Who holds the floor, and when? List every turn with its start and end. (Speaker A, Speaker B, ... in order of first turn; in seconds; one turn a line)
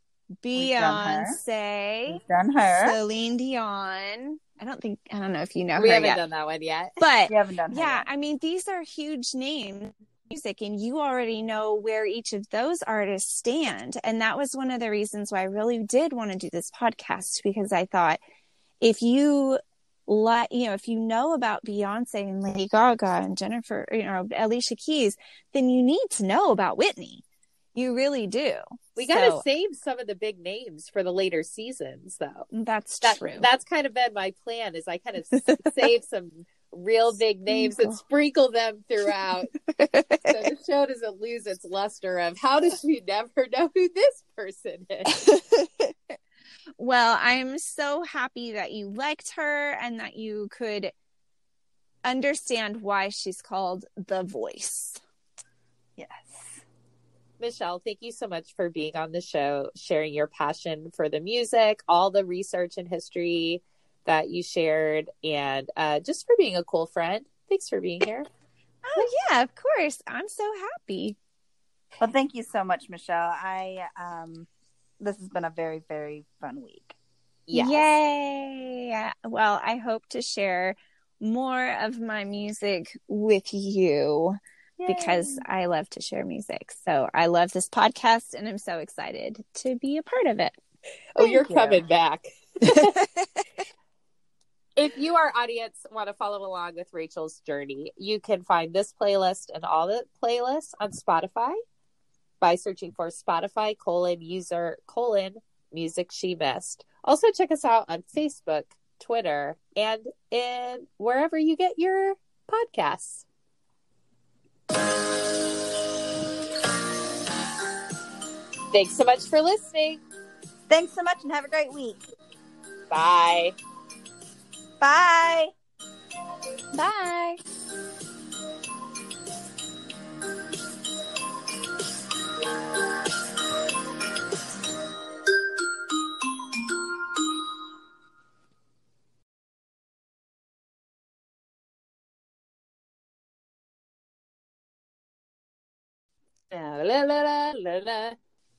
Speaker A: 0.4-2.2
Speaker B: 0.5-1.4
Speaker B: 2.1-3.0
Speaker A: 2.7-6.2
Speaker C: 5.8-7.0
Speaker A: 7.0-18.2
Speaker B: 7.3-8.0
Speaker A: 18.8-27.2
Speaker A: 27.7-29.4
Speaker C: 29.0-32.5
Speaker A: 32.5-33.5
Speaker C: 33.0-39.5
Speaker A: 37.5-38.0
Speaker A: 39.7-40.4
Speaker C: 40.2-45.2
Speaker A: 45.1-45.9
Speaker A: 46.8-50.9
Speaker A: 52.0-55.0
Speaker B: 56.0-56.6
Speaker C: 57.4-68.3
Speaker A: 68.8-71.2
Speaker B: 72.0-74.5
Speaker B: 75.0-76.9
Speaker C: 77.5-77.9
Speaker A: 77.5-90.5
Speaker B: 84.8-85.4
Speaker C: 91.1-93.0
Speaker B: 91.2-91.8
Speaker A: 92.6-93.4
Speaker C: 94.8-101.6
Speaker C: 102.4-113.2
Speaker C: 118.7-120.0
Speaker B: 120.7-122.0
Speaker C: 122.9-123.5
Speaker B: 124.8-125.5
Speaker A: 126.7-127.4
Speaker C: 146.5-148.2